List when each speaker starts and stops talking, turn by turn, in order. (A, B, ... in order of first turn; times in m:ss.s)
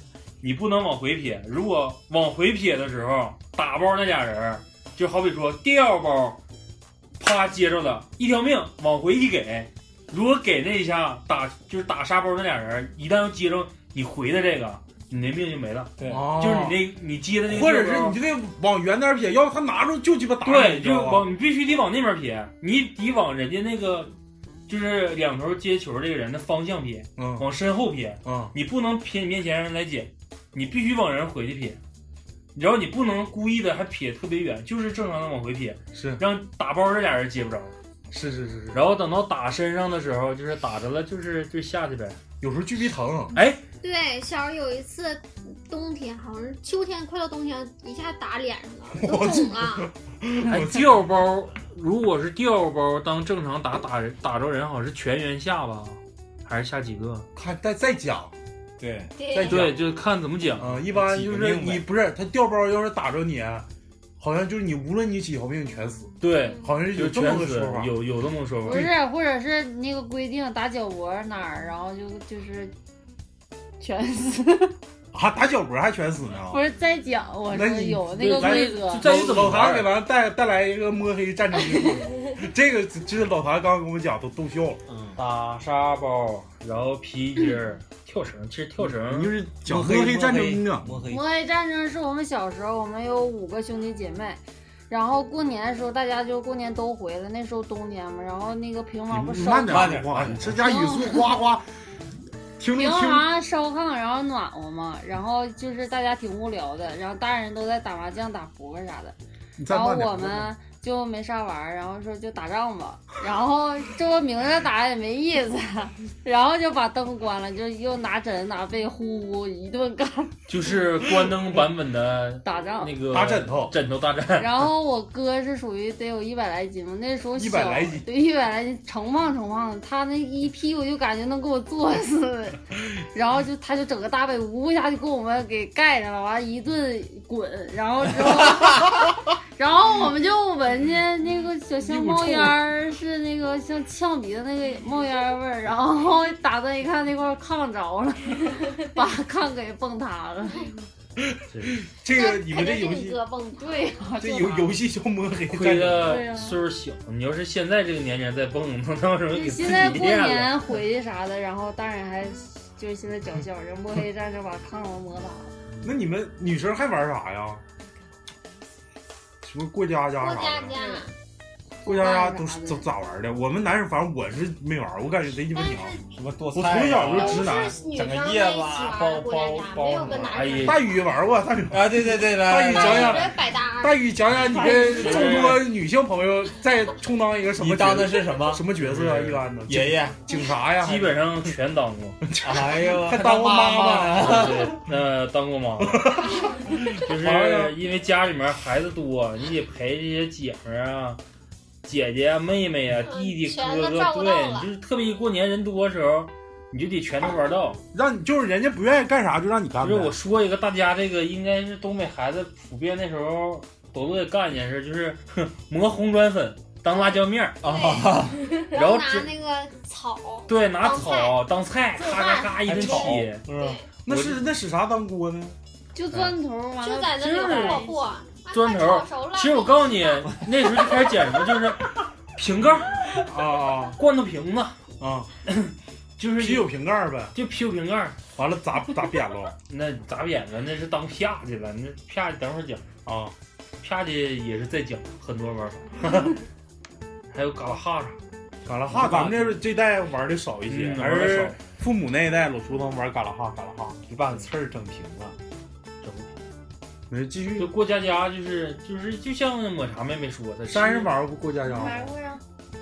0:00.4-0:06.4 A
0:07.2-0:18.2 A
0:16.0-0:16.2 B
0:16.1-0:16.8 C
0:17.4-0:21.3 C
0:20.4-0:24.1 A
0:24.7-0:31.8 A
0:27.2-0:27.5 C
0:28.2-0:28.5 C
0:32.5-0:37.7 A
0:35.9-0:36.2 C
0:38.1-0:38.9 C
0:38.7-0:42.2 A
0:42.4-0:43.3 C
0:43.3-0:43.6 A
0:43.8-0:49.9 D
0:48.9-0:51.0 C
0:50.4-0:57.3 A
0:57.3-0:58.3 C
0:58.8-0:59.4 B
0:59.2-0:59.7 D
0:59.3-0:59.7 C
0:59.4-1:00.6 A
1:00.6-1:03.7 C
1:00.6-1:01.8 B
1:04.2-1:07.9 C
1:06.2-1:08.9 A
1:06.4-1:06.8 D
1:08.6-1:12.7 E
1:13.8-1:14.7 E
1:15.1-1:16.6 C
1:16.5-1:19.0 E
1:17.5-1:24.8 C
1:18.2-1:19.9 A
1:24.9-1:25.2 B
1:25.2-1:29.3 A
1:28.8-1:31.0 C
1:29.6-1:31.2 B
1:31.1-1:39.9 E
1:39.1-1:41.6 C
1:39.7-1:40.5 B
1:40.6-1:41.3 E
1:42.6-1:43.3 C
1:42.7-1:49.2 E
1:49.6-1:50.5 C
1:49.7-2:00.4 E
2:00.5-2:04.7 A
2:02.4-2:03.0 E
2:03.1-2:03.7 C
2:04.4-2:30.7 E
2:07.3-2:08.0 C
2:21.8-2:22.6 C
2:31.2-2:33.2 C
2:31.5-2:31.8 A
2:32.1-2:33.9 D
2:33.5-2:34.8 E
2:34.2-2:36.2 C
2:35.5-2:40.5 A
2:36.0-2:36.6 E
2:39.3-2:45.5 E
2:45.8-2:47.6 C
2:49.4-2:50.8 C
2:50.2-2:51.1 D
2:50.8-2:51.0 F
2:51.8-2:52.8 E
2:51.8-2:56.0 C
2:55.5-2:56.0 D
2:56.1-3:00.2 B
2:56.5-2:57.8 C
2:57.0-3:01.0 D
2:59.2-3:00.8 A
3:00.6-3:11.5 C
3:01.7-3:03.3 B
3:02.6-3:05.4 D
3:04.9-3:05.6 A
3:07.6-3:10.2 B
3:08.9-3:09.3 A
3:10.8-3:12.2 A
3:12.2-3:14.8 C
3:12.4-3:14.7 B
3:14.2-3:16.2 A
3:15.8-3:17.8 C
3:17.0-3:21.2 A
3:21.8-3:27.8 A
3:23.0-3:24.7 D
3:27.9-3:30.2 C
3:29.8-3:37.6 A
3:37.6-3:38.4 B
3:37.6-3:41.3 D
3:38.7-3:39.3 A
3:40.5-3:43.4 A
3:42.0-3:43.2 F
3:42.7-3:43.8 B
3:43.5-3:43.8 D
3:44.0-3:45.6 C
3:44.1-3:44.4 A
3:45.9-3:47.9 E
3:46.8-3:50.4 D
3:47.2-3:47.8 A
3:48.5-3:53.2 A
3:53.2-3:54.0 C
3:53.9-3:54.8 A
3:55.0-3:55.3 C
3:55.4-3:56.7 A
3:56.4-3:57.4 C
3:57.3-3:58.2 A
3:58.3-3:59.5 C
3:59.7-4:02.8 A
4:03.0-4:03.3 C
4:03.8-4:06.4 A
4:07.3-4:08.2 A
4:08.6-4:14.0 C
4:08.9-4:09.6 A
4:10.7-4:11.6 A
4:14.1-4:15.4 B
4:16.0-4:16.4 A
4:17.1-4:17.7 C
4:17.6-4:21.2 A
4:20.7-4:22.0 C
4:21.6-4:22.4 F